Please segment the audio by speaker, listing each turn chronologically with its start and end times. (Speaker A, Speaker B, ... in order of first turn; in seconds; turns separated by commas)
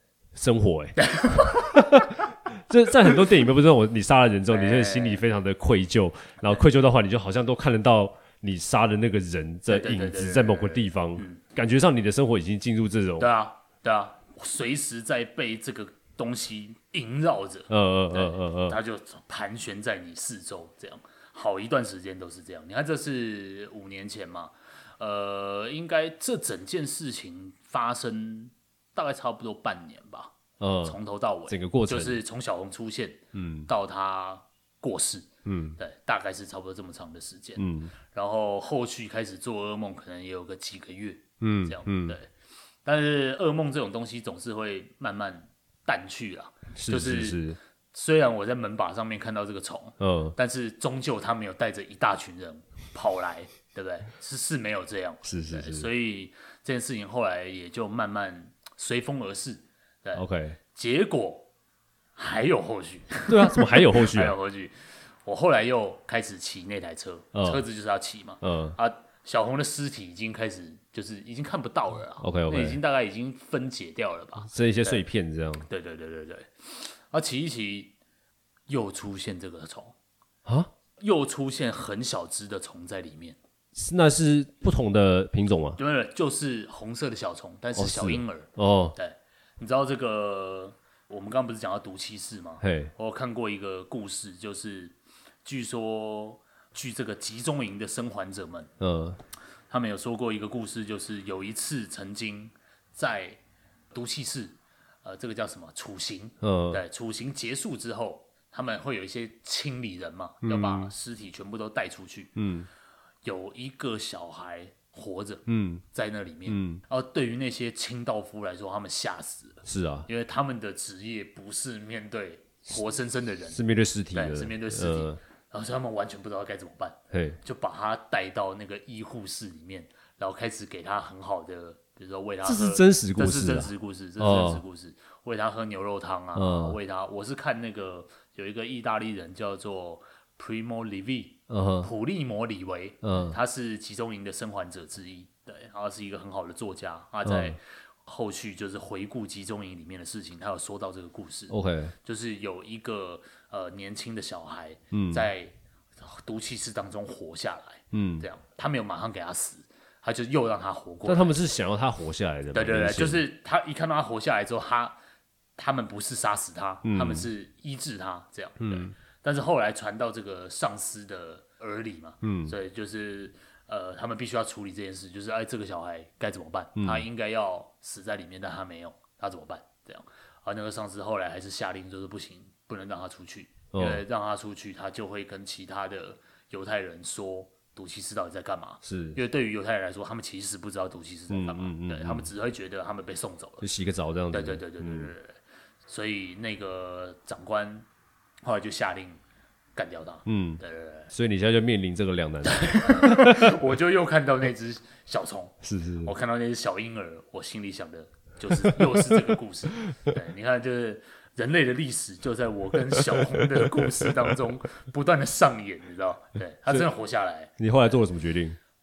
Speaker A: 0.3-13.3, Speaker B: 1.0-1.8, Speaker B: 4.5-5.2, Speaker B: 9.7-11.4, Speaker B: 13.2-42.3, Speaker A: 17.7-18.8, Speaker A: 30.6-32.2, Speaker A: 33.3-33.7, Speaker A: 35.5-35.8, Speaker A: 37.6-37.9, Speaker A: 41.4-42.2, Speaker B: 42.9-47.4, Speaker A: 46.8-47.6, Speaker B: 47.9-61.5, Speaker A: 50.0-50.4, Speaker A: 55.2-55.9, Speaker A: 60.1-60.6, Speaker B: 62.2-75.0, Speaker A: 63.3-64.4, Speaker A: 67.3-67.6, Speaker A: 68.4-68.8, Speaker A: 72.2-72.8, Speaker A: 74.5-75.7, Speaker B: 75.7-77.9, Speaker B: 78.7-80.0, Speaker B: 81.0-83.4, Speaker A: 83.8-85.8, Speaker B: 85.8-98.7, Speaker A: 87.8-89.0, Speaker A: 92.6-92.9, Speaker A: 98.8-99.2, Speaker B: 99.7-103.4, Speaker B: 103.9-112.3, Speaker A: 106.4-106.8, Speaker A: 110.4-110.9, Speaker A: 112.4-112.7, Speaker B: 113.2-123.6, Speaker A: 115.5-115.8, Speaker A: 116.5-116.8, Speaker A: 119.7-120.1, Speaker A: 123.5-125.2, Speaker B: 124.1-161.4, Speaker A: 127.1-127.4, Speaker A: 132.4-134.6, Speaker A: 136.3-136.8, Speaker A: 141.5-141.9, Speaker A: 143.0-143.4, Speaker A: 147.2-147.6, Speaker A: 151.5-151.9, Speaker A: 154.9-155.3, Speaker A: 157.9-158.3, Speaker A: 161.1-163.2, Speaker B: 162.5-165.0, Speaker B: 165.6-193.7, Speaker A: 166.8-167.3, Speaker A: 168.6-168.9, Speaker A: 172.2-172.5, Speaker A: 176.8-177.1, Speaker A: 183.7-184.0, Speaker A: 188.8-189.2, Speaker A: 191.3-192.3, Speaker A: 193.6-195.1, Speaker B: 194.3-197.9, Speaker B: 198.4-199.2, Speaker B: 199.8-201.1, Speaker A: 200.3-203.6, Speaker B: 202.4-217.9, Speaker A: 205.6-206.1, Speaker A: 208.6-209.2, Speaker A: 213.2-214.1, Speaker A: 217.6-218.6